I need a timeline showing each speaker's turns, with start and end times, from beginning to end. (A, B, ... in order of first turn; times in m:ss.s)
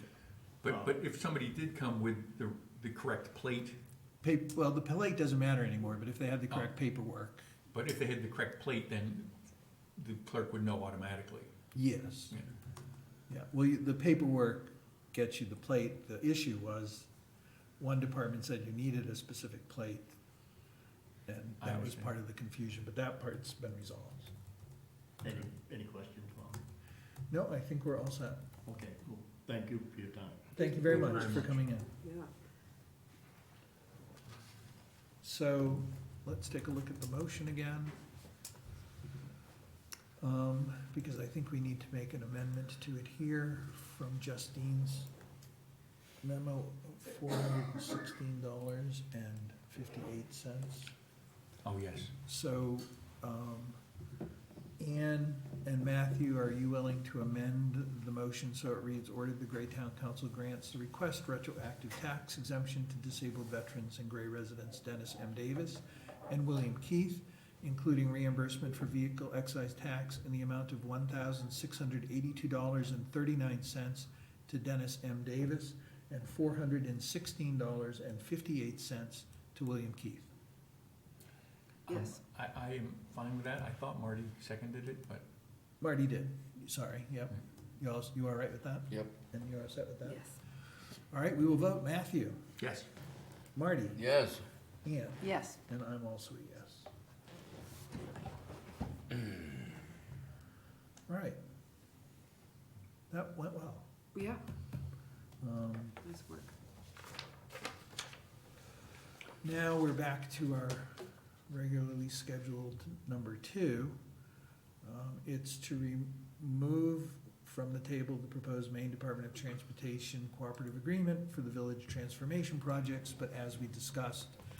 0:00.6-0:03.8 A
0:04.2-0:07.5 B
0:07.7-0:09.3 A
0:10.0-0:11.5 A
0:11.7-0:12.4 B
0:13.3-0:17.1 B
0:17.8-0:20.2 B
0:21.3-0:24.3 B
0:21.6-0:22.1 A
0:25.2-0:26.6 C
0:27.3-0:28.4 B
0:28.6-0:30.5 C
0:30.5-0:31.9 B
0:30.6-0:32.3 D
0:35.2-0:38.0 B
0:40.2-0:45.1 B
0:46.2-0:50.9 B
0:51.6-0:52.1 A
0:52.2-0:53.8 B
0:54.8-1:20.3 B
1:21.9-1:25.2 A
1:21.9-1:22.2 D
1:25.8-1:30.2 B
1:30.0-1:30.3 D
1:31.1-1:32.4 B
1:32.6-1:32.9 A
1:33.5-1:34.0 B
1:34.0-1:34.4 C
1:34.8-1:36.9 B
1:35.2-1:35.6 D
1:41.1-1:41.4 B
1:43.1-1:43.9 B
1:44.1-1:44.4 D
1:45.4-1:46.0 B
1:46.0-1:46.5 D
1:49.4-1:54.0 B
1:54.8-2:04.4 B